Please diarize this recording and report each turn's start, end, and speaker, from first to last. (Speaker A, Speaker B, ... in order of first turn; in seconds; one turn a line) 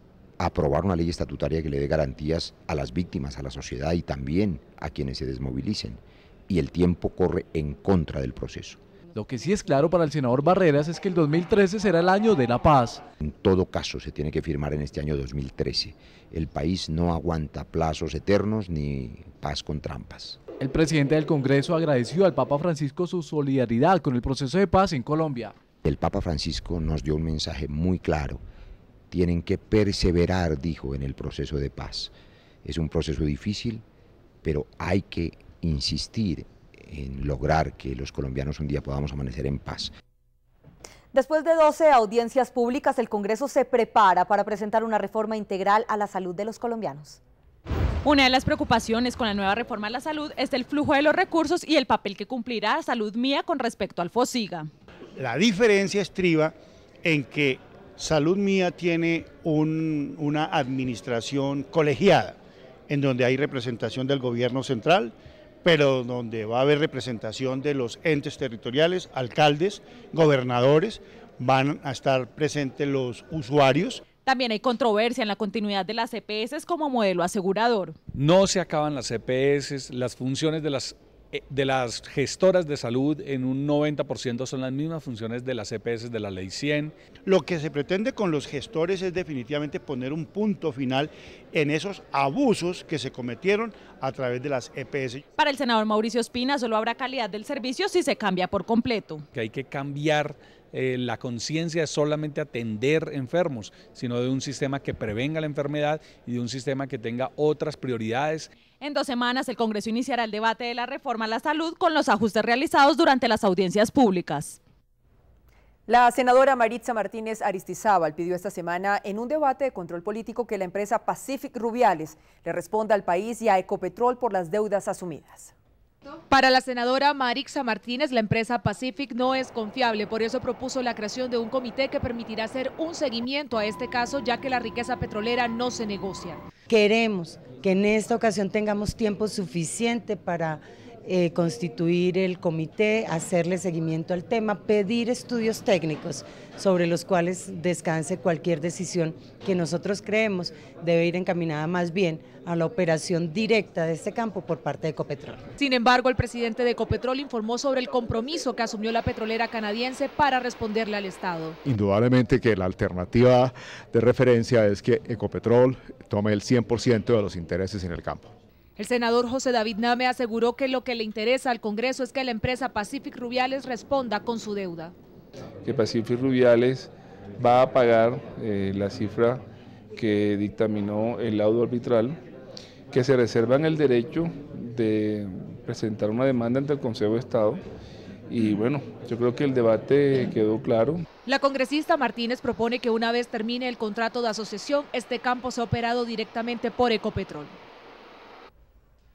Speaker A: 0.4-8.8
Speaker B: 9.1-13.0
Speaker A: 13.2-20.4
Speaker B: 20.6-25.5
Speaker A: 25.8-28.4
Speaker A: 29.1-32.1
Speaker A: 32.6-33.8
Speaker A: 34.4-39.9
Speaker C: 41.1-47.2
Speaker D: 48.0-54.7
Speaker E: 55.2-62.4
Speaker E: 62.9-74.0
Speaker D: 74.2-77.9
Speaker F: 78.1-86.9
Speaker E: 87.2-95.2
Speaker D: 95.4-99.2
Speaker F: 99.3-108.5
Speaker D: 108.8-114.6
Speaker G: 115.9-125.5
Speaker H: 126.3-136.4
Speaker I: 136.7-155.4
Speaker H: 155.6-161.6
Speaker J: 161.7-168.3
Speaker H: 168.8-174.9
Speaker K: 175.6-179.4
Speaker K: 179.9-182.2
Speaker K: 182.9-187.6
Speaker K: 188.3-191.0
Speaker H: 191.2-197.6